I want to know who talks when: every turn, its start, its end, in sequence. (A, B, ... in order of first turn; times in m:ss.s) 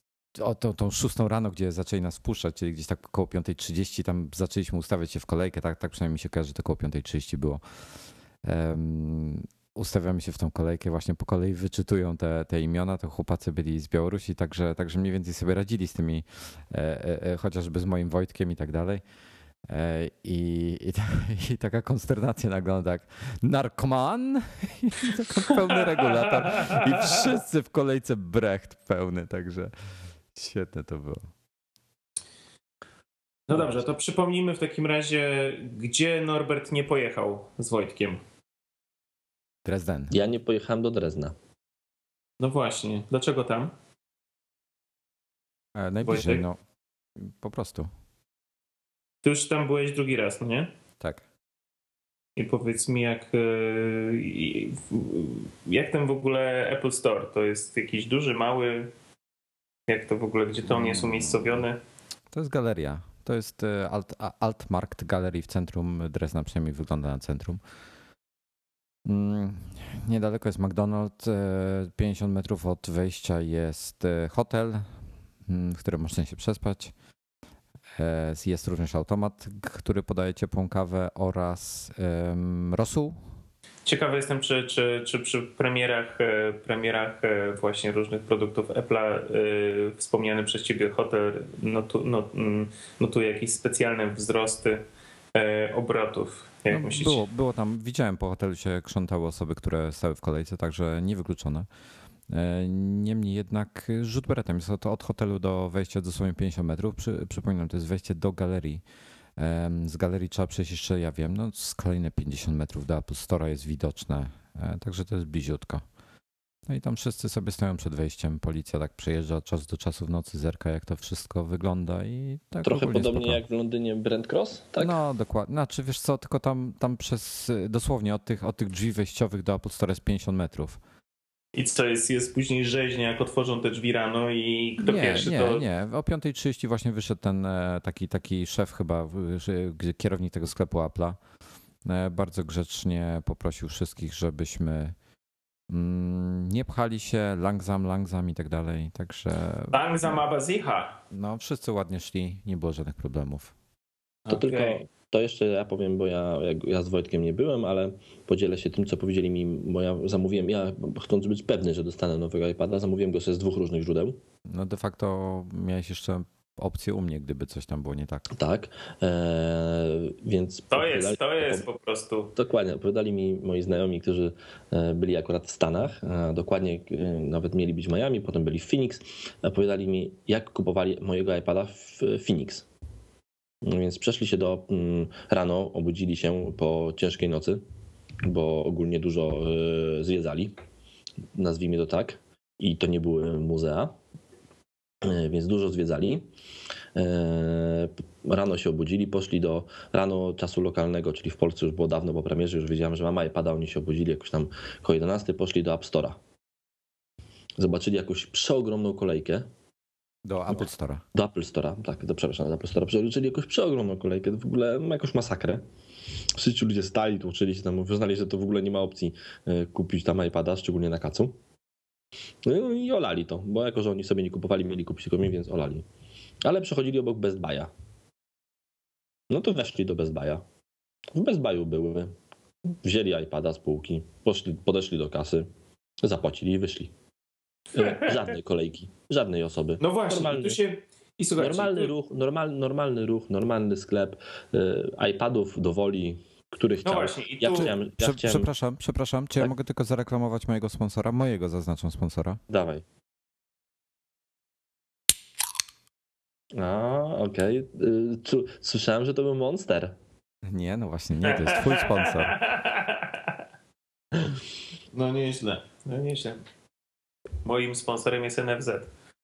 0:00.4-0:07.6 A
0:08.4-0:19.0 A
0:19.7-0:29.7 A
0:26.1-0:27.1 B
0:30.3-0:31.3 A
0:33.5-0:38.2 B
0:39.6-0:40.2 A
0:40.1-0:41.3 C
0:42.4-0:43.7 B
0:45.8-0:46.6 A
0:46.0-0:46.4 B
0:47.2-0:47.9 A
0:49.2-0:50.7 B
0:52.4-0:58.9 B
0:59.9-1:01.8 B
1:00.7-1:01.6 A
1:02.3-1:07.6 A
1:09.0-1:16.9 A
1:18.0-1:23.2 A
1:23.8-1:34.8 B
1:35.3-1:37.2 B
1:36.7-1:41.7 A
1:42.3-1:48.8 A
1:49.4-1:55.8 A
1:56.7-2:03.4 A
2:02.6-2:05.0 C
2:04.8-2:10.8 A
2:11.5-2:15.6 B
2:14.8-2:21.2 A
2:21.8-2:24.9 A
2:25.7-2:30.2 A
2:29.7-2:31.0 B
2:31.1-2:33.5 A
2:34.2-2:34.8 B
2:34.3-2:44.2 C
2:44.5-2:48.3 A
2:48.3-2:51.6 C
2:50.7-2:52.3 B
2:52.4-3:02.6 C
3:03.6-3:07.6 C
3:08.2-3:10.5 C
3:11.3-3:13.9 C
3:15.0-3:16.3 C
3:16.9-3:26.2 C
3:27.6-3:29.5 C
3:30.2-3:31.0 A
3:31.1-3:35.6 C
3:36.3-3:41.3 C
3:42.4-3:45.8 C
3:46.4-3:47.7 C
3:49.3-3:50.4 C
3:51.1-3:52.1 C
3:52.8-3:55.5 C
3:56.0-3:56.9 C
3:57.7-4:00.6 C
3:57.8-3:58.2 B
3:59.8-4:01.9 B
4:01.4-4:08.5 C
4:06.8-4:07.7 B
4:07.6-4:12.4 A
4:12.5-4:12.8 C
4:16.5-4:19.9 C
4:20.4-4:22.4 A
4:21.2-4:23.2 B
4:24.9-4:26.4 B
4:27.4-4:28.9 B